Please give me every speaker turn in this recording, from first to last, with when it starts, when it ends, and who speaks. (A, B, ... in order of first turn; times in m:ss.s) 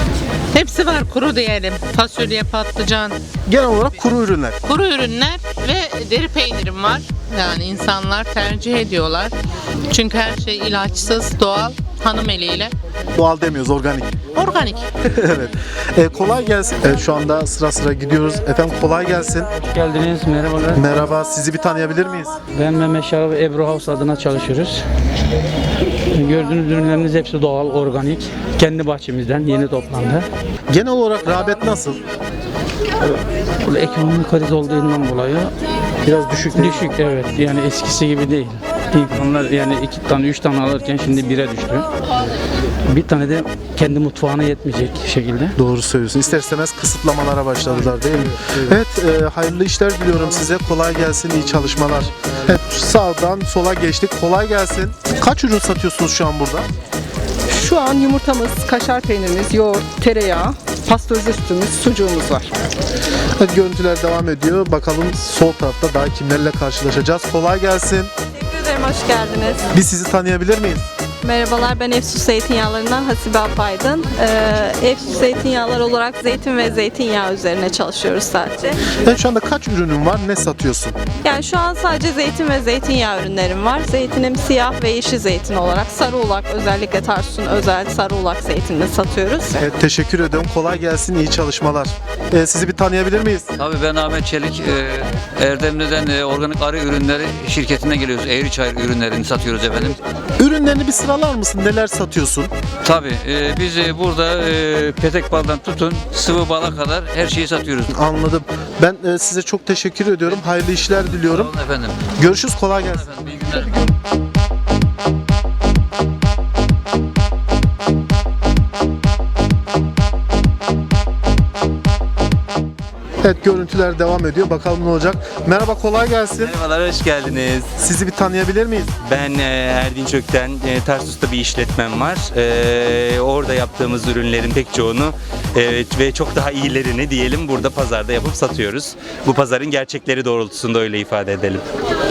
0:00.5-0:03.2 A
0:03.5-0:04.6 B
0:04.6-0:09.3 A
0:09.9-0:12.7 A
0:13.2-0:14.2 B
0:14.3-0:14.8 A
0:15.1-0:19.5 B
0:19.7-0:20.8 C
0:20.7-0:22.4 B
0:22.5-0:24.8 C
0:26.1-0:30.2 C
0:30.7-0:32.0 B
0:33.6-0:35.5 C
0:36.1-0:41.9 C
0:36.5-0:36.8 B
0:42.9-0:45.5 C
0:45.6-0:56.7 B
0:57.5-1:02.5 D
0:57.8-0:58.9 E
0:59.7-1:00.6 E
1:03.4-1:08.1 B
1:08.4-1:09.6 E
1:09.7-1:10.9 B
1:11.2-1:18.8 E
1:19.0-1:21.0 B
1:21.2-1:29.6 E
1:29.6-1:33.5 B
1:33.6-1:40.0 F
1:40.4-1:42.5 B
1:42.8-1:47.9 F
1:47.9-1:51.5 B
1:50.9-1:52.1 F
1:52.2-1:53.1 B
1:52.9-1:53.7 F
2:03.2-2:06.5 B
2:06.4-2:07.7 G
2:07.8-2:08.9 B
2:09.0-2:21.6 G